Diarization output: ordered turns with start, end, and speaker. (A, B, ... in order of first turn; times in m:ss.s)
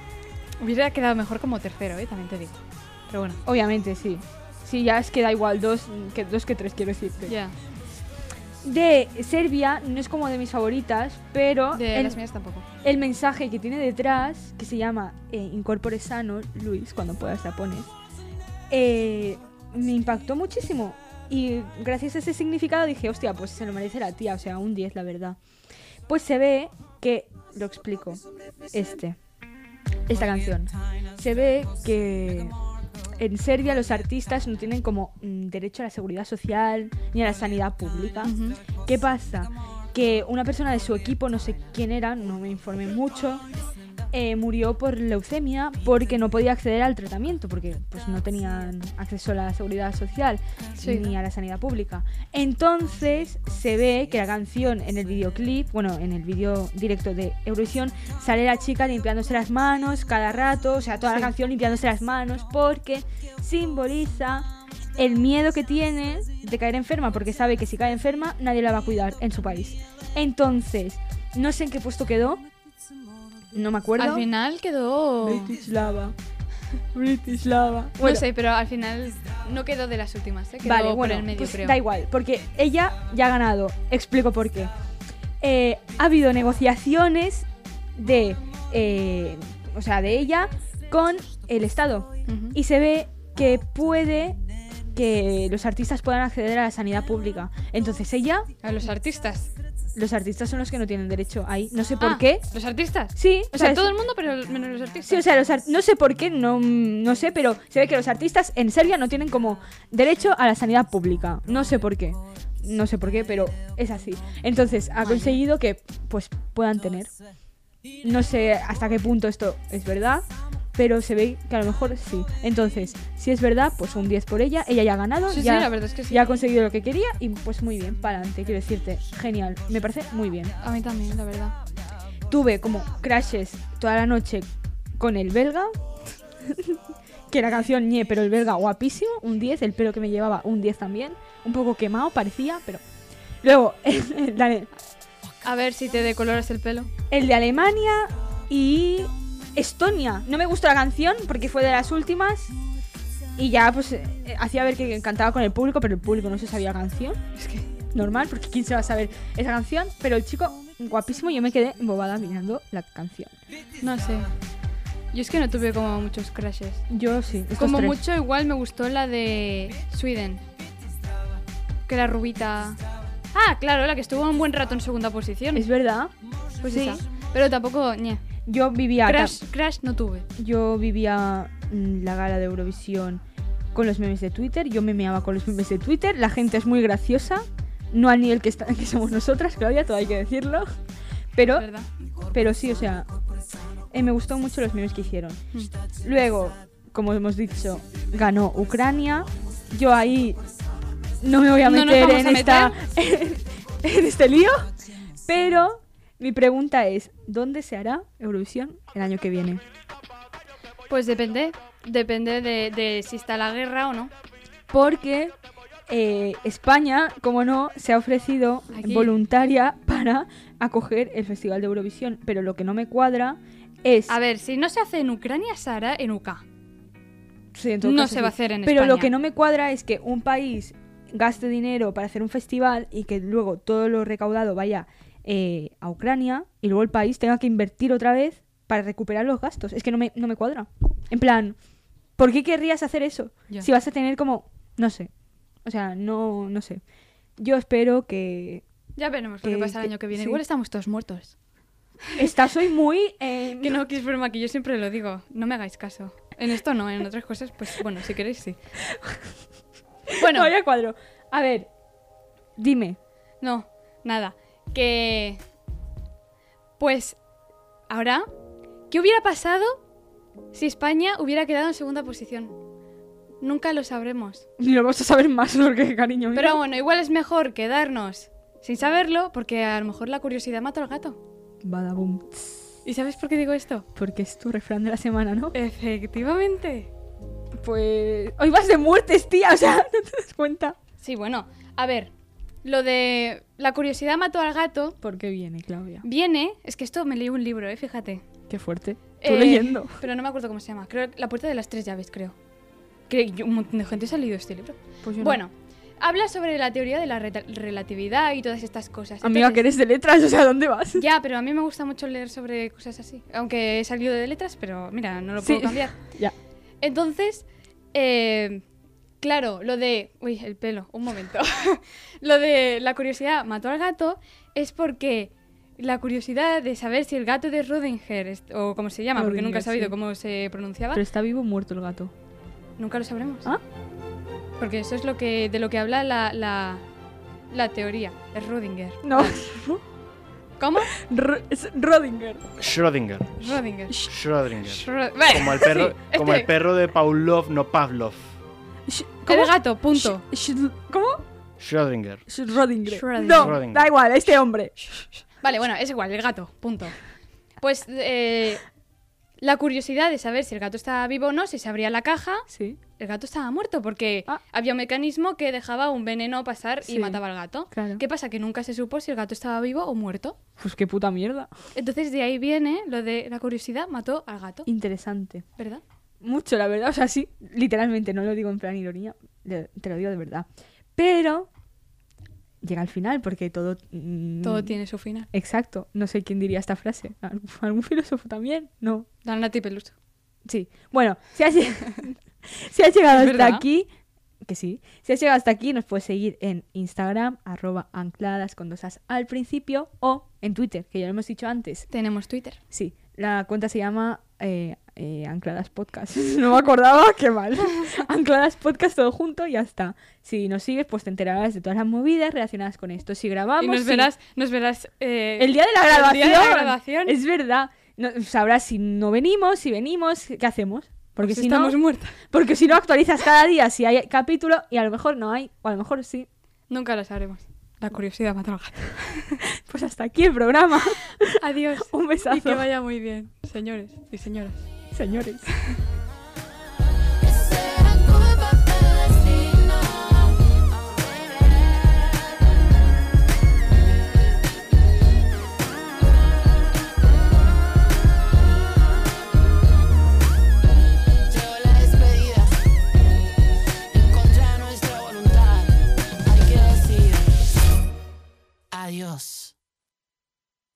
0:00.6-0:02.6 A
0:03.1-0:03.4 A
0:03.4-0:07.3 B
0:07.2-0:07.5 A
0:08.6-0:12.2 B
0:11.7-0:12.6 A
0:12.8-0:17.9 B
0:18.7-0:25.4 B
0:26.1-0:29.2 B
0:30.1-0:32.6 B
0:33.2-0:43.4 B
0:38.2-0:38.6 A
0:44.1-1:12.4 B
0:50.8-0:51.1 A
1:13.5-1:14.3 B
1:14.0-1:15.5 A
1:15.2-1:16.1 B
1:16.9-1:18.2 B
1:18.0-1:21.8 A
1:20.6-1:24.7 B
1:25.4-1:34.4 B
1:32.3-1:32.6 A
1:34.9-1:38.5 B
1:38.6-1:39.5 A
1:39.9-1:42.4 B
1:42.0-1:45.2 A
1:43.2-1:43.9 B
1:45.0-1:57.1 B
1:55.0-1:55.4 A
1:58.0-2:10.5 B
2:05.3-2:06.3 A
2:10.6-2:11.6 A
2:12.3-2:14.5 B
2:15.0-2:15.7 B
2:16.4-2:22.8 B
2:23.4-2:24.7 B
2:25.4-2:26.9 A
2:27.1-2:32.5 B
2:33.4-2:37.2 B
2:37.4-2:37.6 A
2:37.9-2:43.3 B
2:43.8-2:44.3 A
2:45.1-2:46.8 A
2:46.9-2:48.0 B
2:47.6-2:50.4 A
2:51.9-2:52.8 A
2:53.3-2:55.7 A
2:55.5-2:56.1 B
2:56.6-2:58.2 A
2:56.6-2:57.0 B
2:58.4-2:59.4 B
2:59.0-3:00.3 A
3:00.4-3:03.2 B
3:03.7-3:10.7 B
3:11.3-3:11.7 B
3:11.5-3:11.9 A
3:12.3-3:13.1 B
3:13.9-3:15.4 B
3:16.0-3:20.4 B
3:21.2-3:24.7 B
3:21.6-3:22.8 A
3:25.2-3:29.6 B
3:30.9-3:34.1 A
3:34.7-3:35.3 B
3:35.9-3:44.1 B
3:38.7-3:39.1 A
3:44.1-3:46.4 A
3:47.5-4:01.6 B
3:47.8-3:49.1 A
4:02.2-4:05.1 B
4:05.6-4:06.8 B
4:07.4-4:08.6 B
4:09.0-4:11.4 A
4:09.4-4:10.4 B
4:12.2-4:13.8 B
4:13.6-4:18.6 A
4:18.9-4:19.2 B
4:20.1-4:21.7 B
4:20.2-4:20.5 A
4:22.6-4:23.0 B
4:23.4-4:25.4 A
4:26.8-4:27.2 A
4:27.9-4:28.3 A
4:28.9-4:29.8 A
4:30.5-4:32.6 A
4:33.4-4:34.4 A
4:34.6-4:36.6 B
4:36.3-4:41.2 A
4:41.6-4:42.7 B
4:42.8-4:43.9 A
4:43.9-4:45.5 B
4:45.5-4:46.9 A
4:47.6-4:50.8 B
4:51.0-4:52.1 A
4:52.6-4:55.0 A
4:55.0-4:56.0 B
4:56.0-4:58.2 A
4:58.5-5:00.0 B
4:59.2-5:02.4 A
5:03.1-5:09.7 A
5:05.0-5:05.4 B
5:09.2-5:11.0 B
5:11.0-5:16.0 A
5:15.4-5:16.3 B
5:16.8-5:18.6 A
5:19.2-5:31.0 A
5:29.2-5:29.9 B
5:30.9-5:32.1 B
5:32.8-5:33.5 A
5:34.6-5:36.8 A
5:37.5-5:39.4 A
5:39.0-5:39.8 B
5:40.6-5:40.9 A
5:40.9-5:42.5 B
5:42.6-5:43.4 C
5:43.4-5:44.1 A
5:44.0-5:48.3 C
5:44.7-5:46.5 A
5:48.9-5:51.2 B
5:49.3-5:50.2 A
5:51.6-5:52.3 C
5:52.3-5:54.8 B
5:52.9-5:53.6 A
5:53.2-5:53.9 C
5:55.4-5:57.0 A
5:57.6-5:58.6 A
5:59.4-6:10.4 A
6:02.5-6:02.8 B
6:06.8-6:07.2 B
6:07.7-6:08.0 B
6:10.6-6:11.5 B
6:11.7-6:14.7 A
6:14.6-6:15.4 B
6:15.6-6:15.8 A
6:16.2-6:21.5 B
6:22.6-6:24.8 B
6:24.4-6:25.3 A
6:25.3-6:29.1 B
6:29.2-6:29.9 A
6:30.4-6:33.9 B
6:33.1-6:33.6 A
6:34.4-6:41.9 B
6:41.9-6:42.6 A
6:42.7-6:54.1 B
6:53.6-6:57.2 A
6:55.4-7:06.3 B
7:01.2-7:02.2 A
7:06.7-7:09.4 A
7:09.5-7:12.6 B
7:11.4-7:14.7 A
7:14.9-7:15.5 B
7:17.2-7:22.3 D
7:31.2-7:32.5 D
7:33.9-7:37.6 D
7:38.7-7:39.5 D